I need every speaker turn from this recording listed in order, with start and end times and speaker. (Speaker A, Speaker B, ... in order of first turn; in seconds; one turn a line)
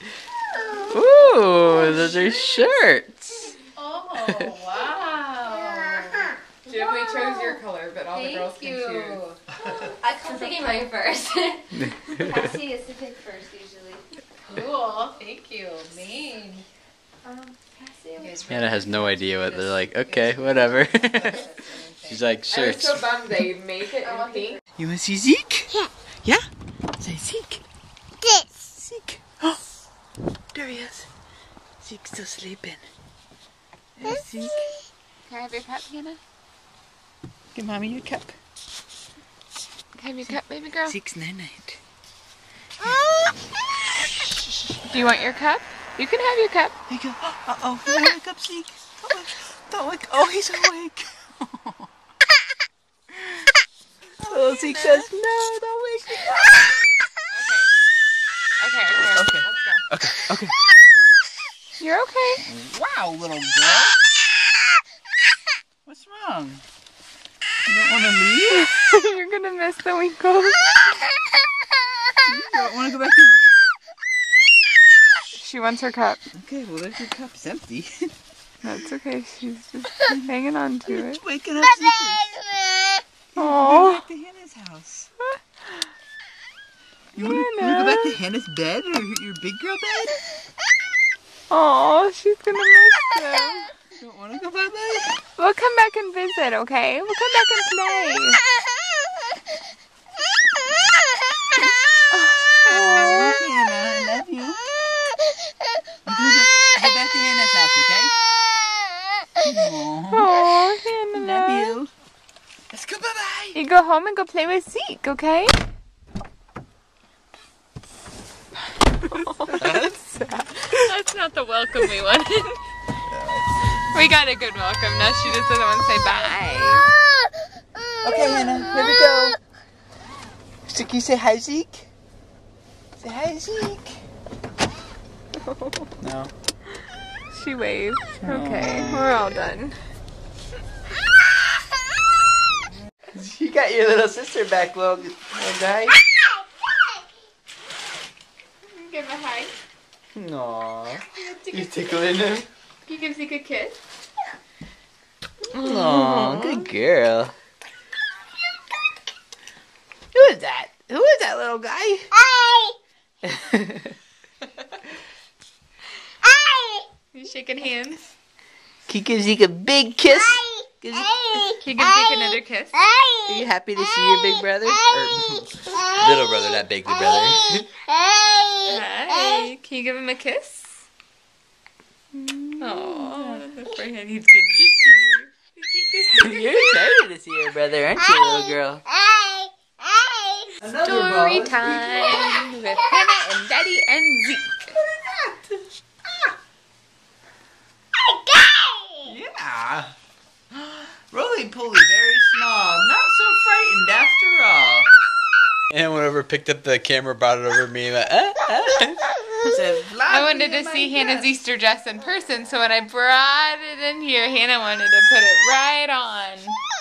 Speaker A: 0.9-3.5
Speaker B: 3.8-7.4
Speaker C: 3.8-6.1
Speaker A: 4.1-4.5
Speaker C: 6.6-9.3
Speaker B: 8.1-11.6
Speaker C: 10.2-10.8
Speaker A: 11.7-12.5
Speaker B: 12.2-16.6
Speaker C: 14.5-15.0
Speaker B: 17.2-22.1
Speaker C: 18.1-18.6
Speaker A: 18.4-21.5
Speaker A: 22.0-23.2
Speaker C: 22.5-24.6
Speaker B: 24.1-24.6
Speaker A: 24.8-26.4
Speaker A: 27.0-27.6
Speaker A: 28.6-29.6
Speaker A: 30.5-31.1
Speaker A: 31.8-32.8
Speaker A: 34.0-34.7
Speaker C: 35.2-36.2
Speaker A: 37.5-38.3
Speaker C: 39.9-41.0
Speaker A: 40.3-41.8
Speaker C: 44.9-46.7
Speaker A: 46.9-51.9
Speaker A: 54.2-56.6
Speaker C: 54.6-55.0
Speaker C: 57.3-57.7
Speaker C: 58.6-59.8
Speaker A: 59.1-60.5
Speaker C: 61.8-62.4
Speaker A: 62.4-64.0
Speaker A: 65.8-66.6
Speaker A: 67.7-68.7
Speaker C: 68.5-70.8
Speaker A: 72.2-73.4
Speaker C: 75.3-76.2
Speaker A: 76.3-78.1
Speaker C: 78.6-81.2
Speaker A: 80.8-82.3
Speaker A: 83.3-85.1
Speaker C: 83.4-84.0
Speaker C: 85.2-85.8
Speaker C: 87.1-88.2
Speaker A: 87.2-90.2
Speaker C: 91.5-93.7
Speaker A: 94.0-95.2
Speaker C: 95.4-98.4
Speaker C: 102.1-103.3
Speaker A: 102.7-104.6
Speaker A: 106.0-108.1
Speaker A: 109.4-110.3
Speaker C: 110.1-111.8
Speaker A: 111.1-111.9
Speaker A: 112.7-113.6
Speaker C: 113.5-115.7
Speaker C: 119.1-119.9
Speaker A: 119.5-120.8
Speaker C: 120.7-122.6
Speaker A: 123.1-123.7
Speaker C: 123.9-126.9
Speaker A: 128.0-129.3
Speaker A: 130.7-131.9
Speaker A: 133.0-133.9
Speaker A: 136.0-136.3
Speaker C: 137.3-139.8
Speaker A: 138.2-139.1
Speaker A: 143.1-146.0
Speaker C: 148.6-149.5
Speaker A: 150.1-152.5
Speaker C: 151.1-151.8
Speaker C: 152.8-153.8
Speaker C: 155.5-156.7
Speaker A: 155.5-157.3
Speaker A: 160.1-162.1
Speaker A: 163.2-163.9
Speaker C: 167.1-168.1
Speaker A: 168.9-171.5
Speaker C: 171.6-172.8
Speaker A: 173.2-177.7
Speaker C: 178.6-180.8
Speaker A: 182.3-183.4
Speaker C: 182.6-186.8
Speaker A: 186.1-188.8
Speaker A: 190.6-192.5
Speaker C: 190.8-194.7
Speaker A: 194.9-195.4
Speaker A: 199.0-199.9
Speaker A: 200.5-204.9
Speaker A: 205.7-211.3
Speaker C: 210.1-216.6